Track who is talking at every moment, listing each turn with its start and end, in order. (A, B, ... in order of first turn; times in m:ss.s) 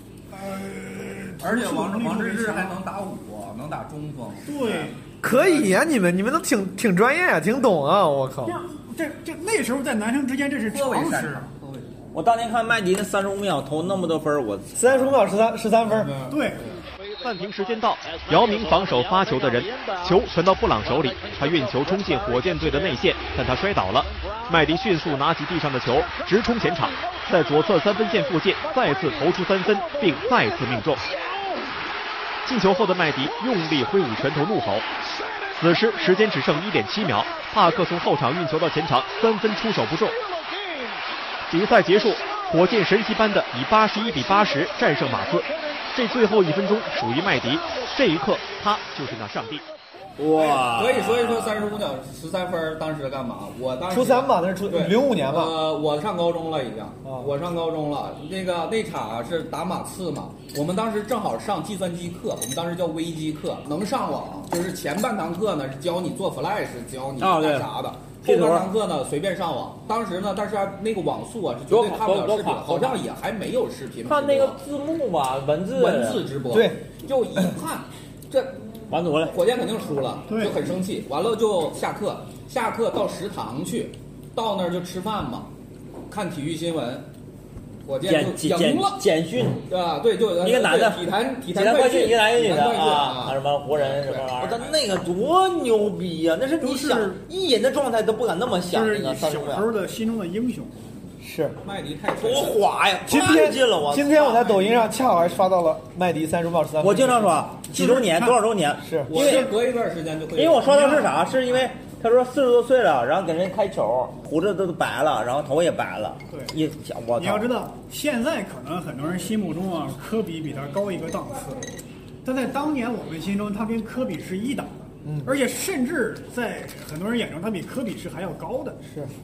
0:00.3-0:02.8 A
0:01.4-0:05.8 B
0:04.5-0:05.0 A
0:05.2-0:08.6 C
0:08.4-0:11.5 A
0:10.7-0:12.0 B
0:12.1-0:15.1 D
0:14.8-0:16.1 C
0:15.8-0:16.8 B
0:16.3-0:16.6 A
0:17.2-0:31.0 E
0:32.4-0:34.8 E
0:35.6-0:40.2 E
0:41.5-0:49.6 E
0:50.2-0:51.6 D
0:50.4-1:14.6 B
0:53.9-0:55.6 C
0:57.0-0:57.3 C
1:07.2-1:07.7 D
1:08.2-1:08.7 D
1:11.7-1:13.0 D
1:14.1-1:16.3 D
1:15.7-1:18.6 B
1:16.5-1:16.8 C
1:18.9-1:19.4 D
1:19.2-1:25.5 B
1:20.3-1:20.6 A
1:26.1-1:27.1 B
1:27.8-1:29.0 B
1:28.1-1:29.6 D
1:29.7-1:35.0 B
1:30.4-1:39.7 D
1:36.6-1:37.2 A
1:38.7-1:40.8 A
1:41.2-1:41.6 C
1:41.6-1:42.6 B
1:42.2-1:44.6 D
1:43.1-1:47.5 C
1:46.8-1:49.5 D
1:47.7-1:48.4 A
1:48.8-1:49.1 C
1:49.1-1:51.0 B
1:49.2-1:49.5 A
1:50.4-1:57.5 D
1:50.7-1:51.1 A
1:57.2-2:01.6 A
2:02.2-2:08.8 A
2:05.0-2:05.3 C